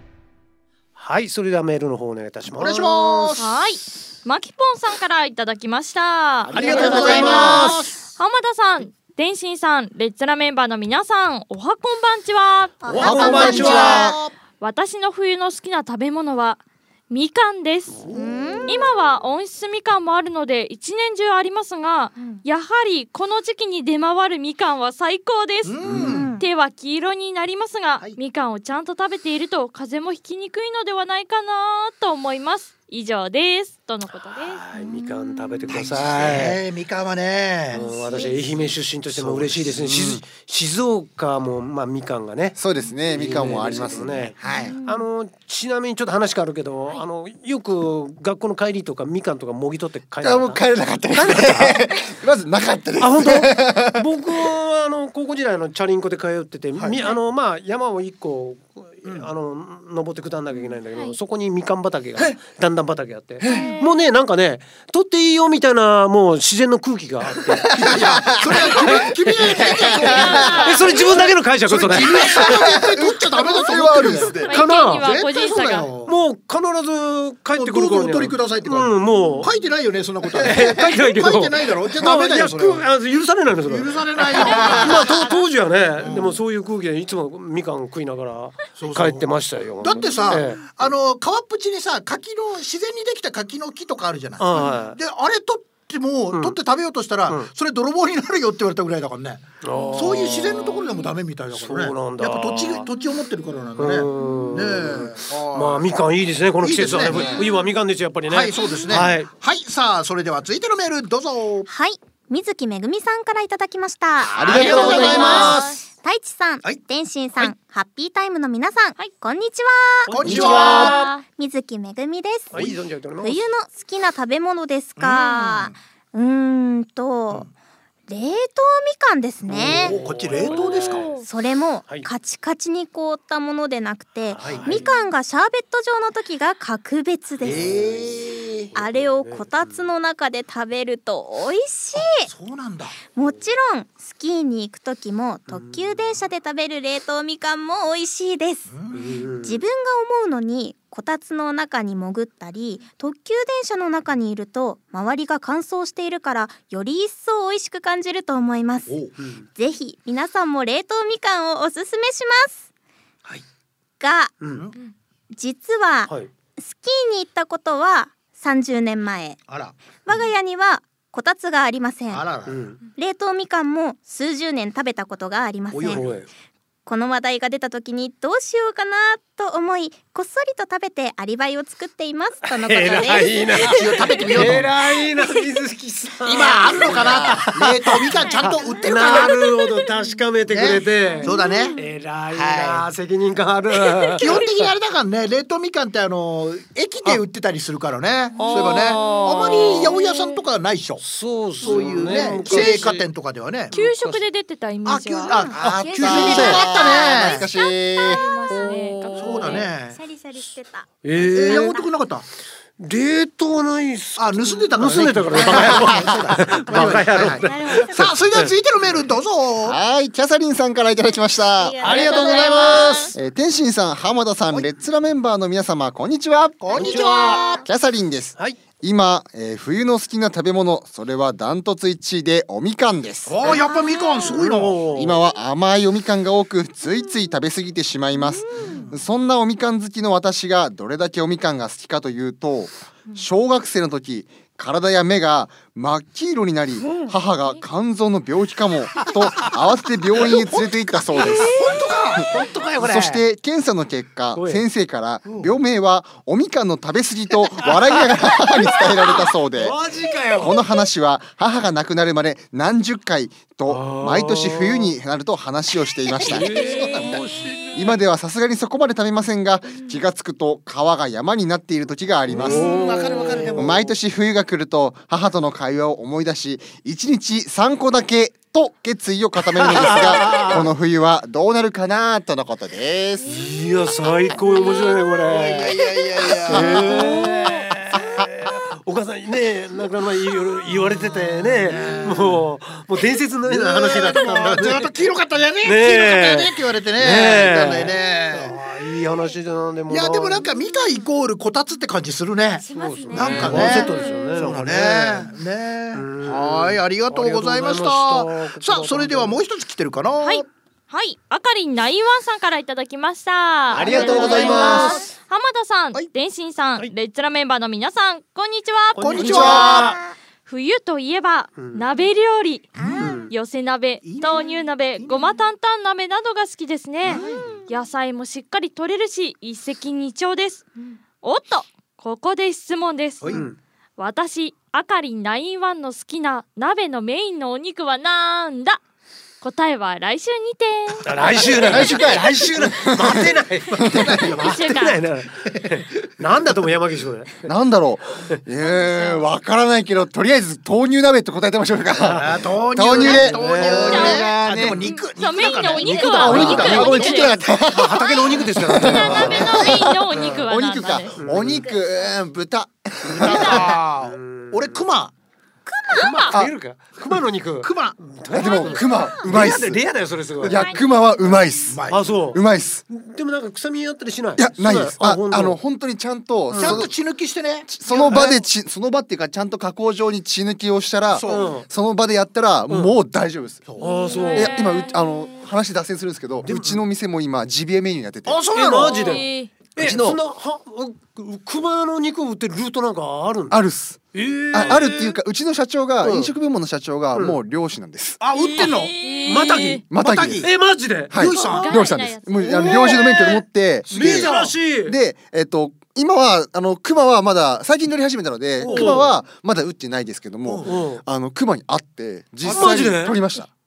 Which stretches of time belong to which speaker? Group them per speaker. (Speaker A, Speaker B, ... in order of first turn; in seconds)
Speaker A: 1.0-3.4, 6.5-7.7, 13.0-14.2, 25.9-26.3, 34.4-36.6, 37.7-51.8, 53.0-72.5, 74.4-75.1, 76.1-79.5, 80.4-90.6, 94.4-95.0, 96.3-96.6, 99.6-100.9, 101.5-102.9, 103.8-109.3, 120.1-121.1, 122.5-123.4, 129.4-131.2, 131.9-132.1, 134.3-134.9, 137.4-139.9, 145.5-146.2, 148.9-149.6, 159.2-159.5, 164.4-164.7, 172.5-172.8, 175.7-176.3, 182.4-188.1, 188.8-194.4, 198.4-199.9, 201.0-203.1, 203.7-204.2, 206.2-206.6, 211.0-211.8, 212.8-218.5, 222.2-222.5, 226.7-227.4, 234.2-235.2, 254.3-254.6, 258.6-260.6, 263.7-264.9, 266.2-268.0, 272.3-273.7, 279.6-280.7, 283.3-285.8, 286.5-294.9, 295.6-300.5, 302.7-305.3, 305.9-309.4, 313.8-315.0, 318.9-320.0, 321.6-321.9, 323.0-323.3, 333.3-333.6, 341.0-347.5, 353.2-354.0, 355.8-357.0, 357.7-360.4, 361.2-361.6, 363.2-364.8, 365.9-370.6, 371.9-375.6, 376.5-376.9, 378.1-378.4, 381.2-381.7, 382.7-382.9, 383.8-384.5, 386.4-386.8, 388.5-393.6, 394.1-395.1, 396.0-396.3, 397.1-397.4, 398.6-399.9, 400.4-401.1, 402.5-403.0, 403.9-405.0, 408.6-409.2, 410.6-411.0, 412.4-413.2
Speaker B: 2.5-3.6, 6.5-8.0, 12.9-14.3, 18.1-18.3, 25.6-26.3, 35.7-37.8, 44.4-44.7, 56.8-57.0, 59.0-59.3, 67.8-76.1, 77.5-82.9, 83.7-85.2, 86.0-86.4, 88.8-105.9, 106.6-107.4, 108.3-111.7, 114.2-115.7, 120.1-121.0, 125.0-125.7, 129.6-131.1, 134.4-134.7, 137.4-138.7, 142.2-143.0, 148.7-149.0, 158.9-159.2, 164.5-164.8, 169.5-169.8, 172.1-172.6, 183.7-184.7, 186.2-189.4, 190.5-191.7, 192.3-192.9, 194.2-201.0, 201.6-203.8, 204.8-207.5, 209.2-210.0, 211.3-212.3, 214.2-219.8, 221.8-223.1, 226.6-227.7, 233.3-235.1, 238.6-239.0, 249.0-249.5, 250.2-253.2, 255.3-255.6, 266.4-267.2, 272.3-273.9, 285.3-287.1, 291.6-292.4, 293.4-298.6, 299.9-310.4, 313.7-314.9, 319.0-319.8, 324.0-325.3, 333.2-333.5, 344.0-344.5, 352.1-357.4, 359.0-359.5, 363.1-365.1, 367.6-368.0, 371.7-372.3, 376.6-378.4, 381.1-381.5, 383.7-384.0, 388.2-389.3, 398.2-398.9, 399.9-400.5, 401.1-401.8, 402.6-402.9, 403.9-404.6, 408.6-409.0, 410.4-410.8
Speaker C: 3.4-18.1, 18.7-25.8, 26.4-34.6, 63.5-63.9, 69.9-71.3, 74.5-75.9, 79.2-79.5, 84.4-85.4, 114.5-115.8, 120.3-121.2, 130.3-131.2, 198.5-200.4, 203.7-205.5, 206.1-206.4, 208.0-209.7, 286.9-287.4, 310.2-319.9, 320.4-333.5, 334.0-338.8, 339.4-342.1, 344.3-345.0, 353.0-354.4, 355.0-357.5, 358.8-361.2, 383.8-385.4, 388.7-389.5, 398.4-399.8, 401.2-403.4
Speaker D: 6.6-7.8, 12.8-14.2, 18.1-19.0, 25.9-26.5, 34.7-35.9, 37.7-38.4, 44.6-45.0, 60.5-60.8, 108.6-108.9, 111.7-127.5, 128.1-130.0, 131.1-137.7, 138.8-142.3, 143.0-159.0, 159.5-162.7, 164.0-164.5, 165.3-169.4, 170.1-172.3, 173.0-176.1, 176.9-184.5, 188.1-189.0, 191.1-191.8, 205.3-212.0, 217.4-218.1, 221.5-223.2, 233.7-234.3, 300.3-301.1, 302.6-304.5, 314.1-315.1, 319.7-320.1, 322.8-323.3, 327.1-327.7, 348.8-349.1, 355.4-356.4, 361.3-362.3, 363.3-363.7, 365.7-366.2, 368.4-369.6, 370.4-371.7
Speaker E: 7.2-7.5, 13.0-14.0, 39.1-40.2, 42.6-44.7, 50.2-54.4, 63.4-63.7, 67.8-70.8, 72.1-74.4, 84.5-84.9, 107.0-107.5, 114.3-115.6, 120.3-120.6, 205.5-208.2, 216.7-217.0, 219.6-227.0, 227.6-233.6, 234.9-252.3, 252.8-259.8, 260.4-266.9, 267.7-272.8, 273.5-283.5, 286.5-286.8, 313.7-315.0, 319.2-319.8, 341.6-344.4, 347.5-354.8, 356.2-363.8, 368.3-369.8, 370.4-372.8, 374.4-376.9, 377.7-383.7, 384.3-388.4, 389.8-390.2, 393.5-398.2, 399.9-400.5, 401.1-413.5